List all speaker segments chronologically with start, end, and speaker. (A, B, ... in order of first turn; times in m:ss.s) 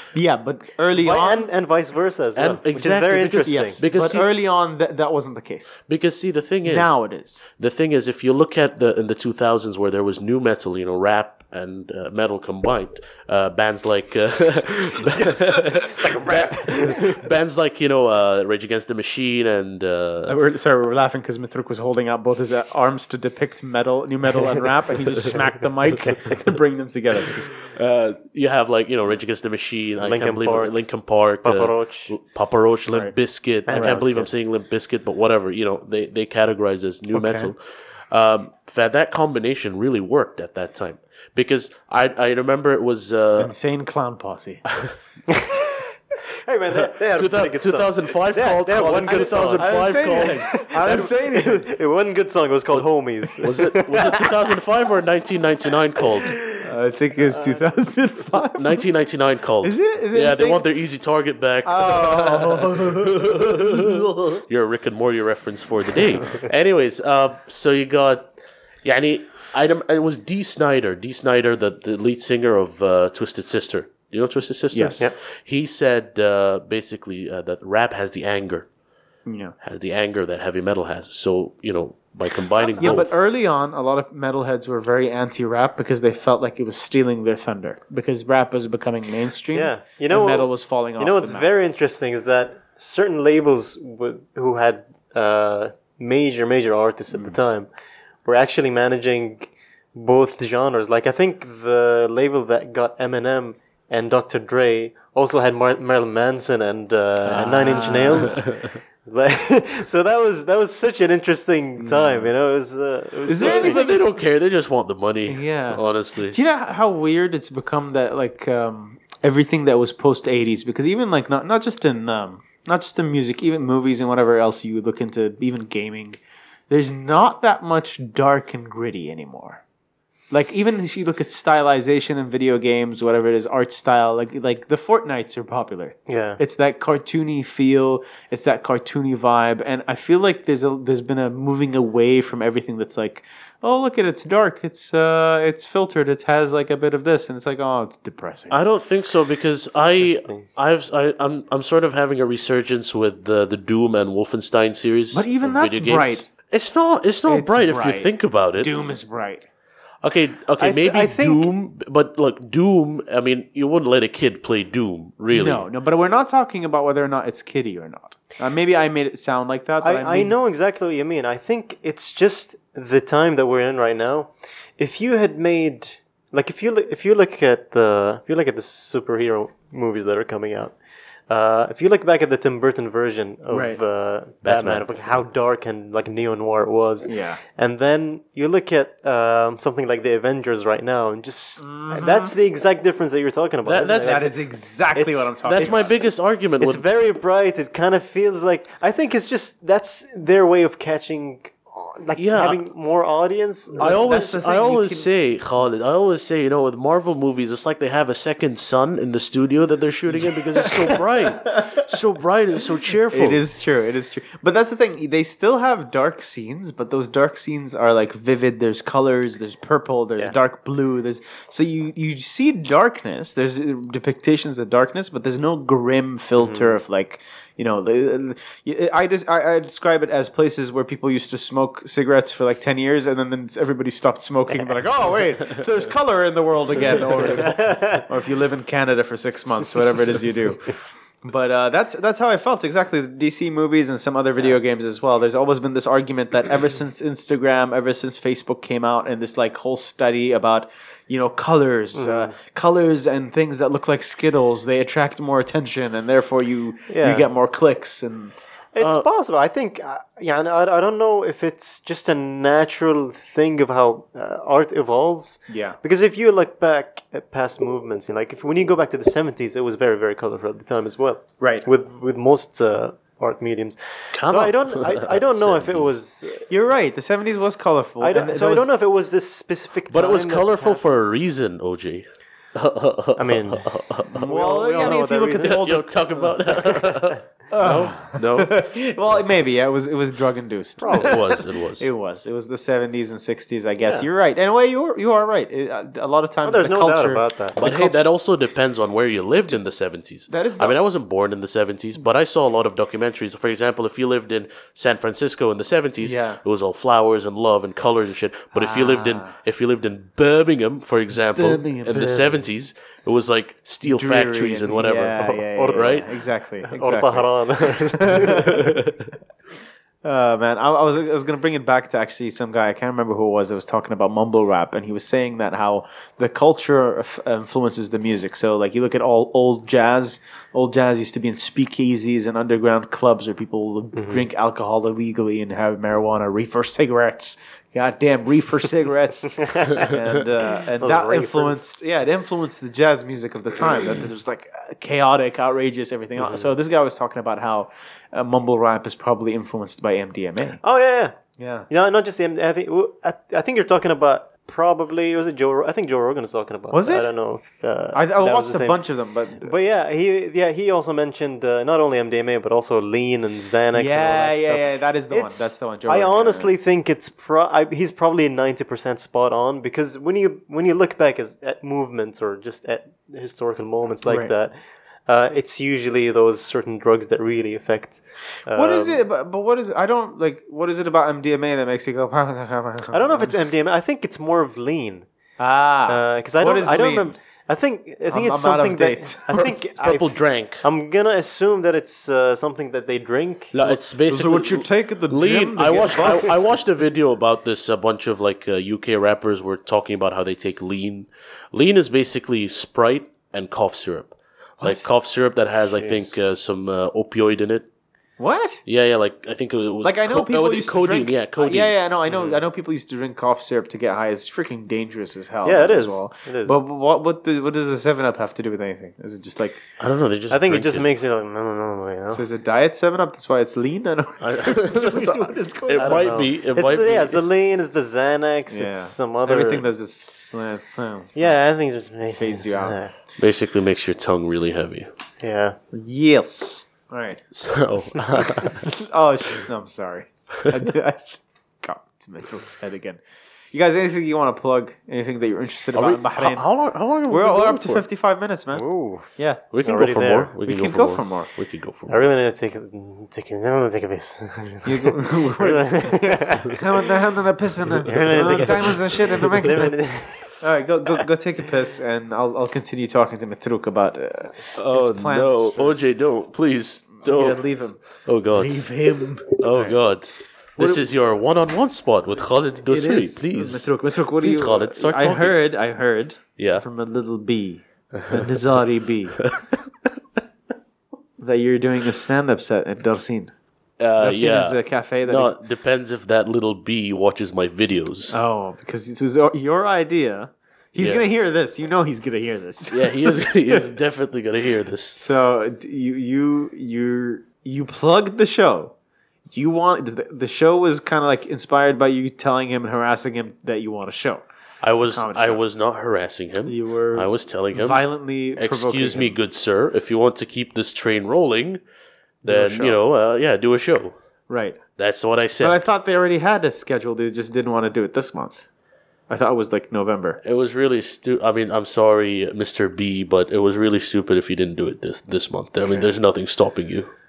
0:00.1-0:01.5 A
0:01.0-0:03.8 B
0:02.4-0:04.3 C
0:03.4-0:05.8 A
0:05.9-0:20.4 C
0:06.7-0:07.4 A
0:15.2-0:17.0 B
0:16.0-0:16.9 A
0:20.3-0:27.5 A
0:27.7-0:43.5 C
0:30.0-0:32.2 B
0:32.9-0:33.1 A
0:33.7-0:34.3 B
0:33.7-0:34.0 A
0:37.1-0:37.5 A
0:43.4-0:44.6 A
0:45.3-0:45.6 B
0:46.4-0:54.3 B
0:47.1-0:50.6 C
0:49.1-0:51.7 A
0:53.4-0:56.4 C
0:56.2-0:56.6 B
0:56.6-0:58.8 A
0:58.6-1:08.3 C
0:59.6-1:00.7 A
1:01.6-1:04.4 A
1:08.8-1:18.7 C
1:14.7-1:15.1 A
1:19.3-1:19.6 A
1:19.6-1:23.1 C
1:22.8-1:23.0 B
1:22.8-1:31.5 A
1:29.5-1:37.7 B
1:38.2-1:53.9 B
1:47.2-1:48.4 A
1:48.2-1:48.7 C
1:51.8-1:52.3 A
1:53.3-1:54.0 A
1:53.4-1:56.4 C
1:55.3-2:06.2 A
2:06.7-2:09.6 A
2:10.3-2:28.6 A
2:16.1-2:16.4 B
2:28.5-2:38.7 C
2:29.7-2:30.5 B
2:35.1-2:36.3 A
2:37.3-2:39.5 A
2:40.0-2:45.7 C
2:40.6-2:41.5 B
2:45.3-2:50.3 A
2:49.8-3:00.8 B
3:01.3-3:14.3 B
3:03.5-3:03.8 A
3:04.4-3:04.9 C
3:07.0-3:07.4 A
3:11.6-3:12.3 A
3:13.6-3:14.3 C
3:14.0-3:15.9 A
3:14.9-3:24.4 B
3:15.4-3:16.8 C
3:22.2-3:22.6 C
3:23.8-3:25.1 A
3:23.8-3:33.4 C
3:30.2-3:31.0 A
3:33.1-4:18.3 A
3:46.4-3:46.8 B
3:57.2-3:58.1 B
4:12.0-4:12.3 B
4:16.9-4:17.3 B
4:18.7-4:36.5 B
4:18.8-4:19.1 C
4:25.5-4:25.8 A
4:31.4-4:31.7 A
4:34.1-4:36.0 C
4:36.5-4:38.7 A
4:38.0-4:41.0 B
4:39.9-4:44.3 C
4:43.2-4:45.7 B
4:44.1-4:46.7 A
4:44.9-4:48.6 C
4:47.5-4:58.0 A
4:50.8-4:51.2 B
4:50.9-4:51.9 C
4:56.4-4:57.6 B
4:57.6-5:16.1 C
5:00.3-5:00.8 A
5:06.0-5:06.4 A
5:08.5-5:09.4 A
5:11.3-5:12.3 A
5:13.8-5:18.8 A
5:15.2-5:18.6 B
5:18.6-5:19.0 C
5:20.0-5:50.6 A
5:34.0-5:34.2 B
5:39.4-5:40.0 B
5:40.6-5:41.6 B
5:46.2-5:46.5 B
5:50.6-5:51.2 B
5:51.4-5:51.7 A
5:51.7-5:58.9 B
5:56.7-5:57.1 A
5:57.9-5:59.5 A
5:59.4-6:19.0 B
6:03.7-6:06.5 A
6:14.0-6:14.3 A
6:18.5-6:23.4 A
6:22.9-6:25.1 B
6:25.4-6:27.2 A
6:25.9-6:33.5 B
6:28.1-6:29.2 A
6:29.3-6:30.6 C
6:33.5-6:47.7 C
6:33.6-6:36.4 A
6:44.6-6:44.9 A
6:48.2-6:48.6 A
6:48.7-6:51.8 C
6:49.8-6:59.6 A
6:52.1-6:52.4 B
6:55.4-6:56.6 B
6:59.8-7:00.9 C
7:00.3-7:02.2 B
7:02.1-7:06.2 A
7:04.2-7:07.2 C
7:05.8-7:09.7 B
7:08.5-7:11.3 A
7:11.2-7:12.9 B
7:12.1-7:12.8 A
7:13.2-7:14.9 C
7:15.2-7:15.6 B
7:15.7-7:17.2 A
7:17.3-7:18.7 C
7:18.5-7:23.0 A
7:23.5-7:26.5 A
7:25.7-7:27.8 C
7:27.1-7:29.4 A
7:28.5-7:29.1 B
7:29.5-7:32.0 C
7:29.6-7:30.3 B
7:30.4-7:31.3 A
7:31.9-7:36.9 B
7:34.6-7:39.8 A
7:37.8-7:40.3 B
7:40.4-7:45.8 A
7:44.6-7:47.4 C
7:47.0-7:49.8 A
7:48.0-7:48.6 C
7:49.3-7:55.4 C
7:50.6-7:50.8 A
7:52.7-7:59.2 A
7:56.4-7:56.6 C
8:01.2-8:03.3 A
8:03.8-8:08.2 C
8:04.0-8:05.4 A
8:08.1-8:13.7 A
8:10.8-8:11.0 C
8:12.7-8:15.0 C
8:14.9-8:18.7 A
8:19.3-8:24.2 A
8:24.6-8:31.6 C
8:24.9-8:25.4 A
8:26.5-8:29.2 A
8:32.2-8:32.8 A
8:32.2-8:34.0 C
8:34.3-8:34.6 A
8:34.8-8:35.6 C
8:35.4-8:38.4 A
8:39.1-8:40.2 A
8:40.2-8:46.9 C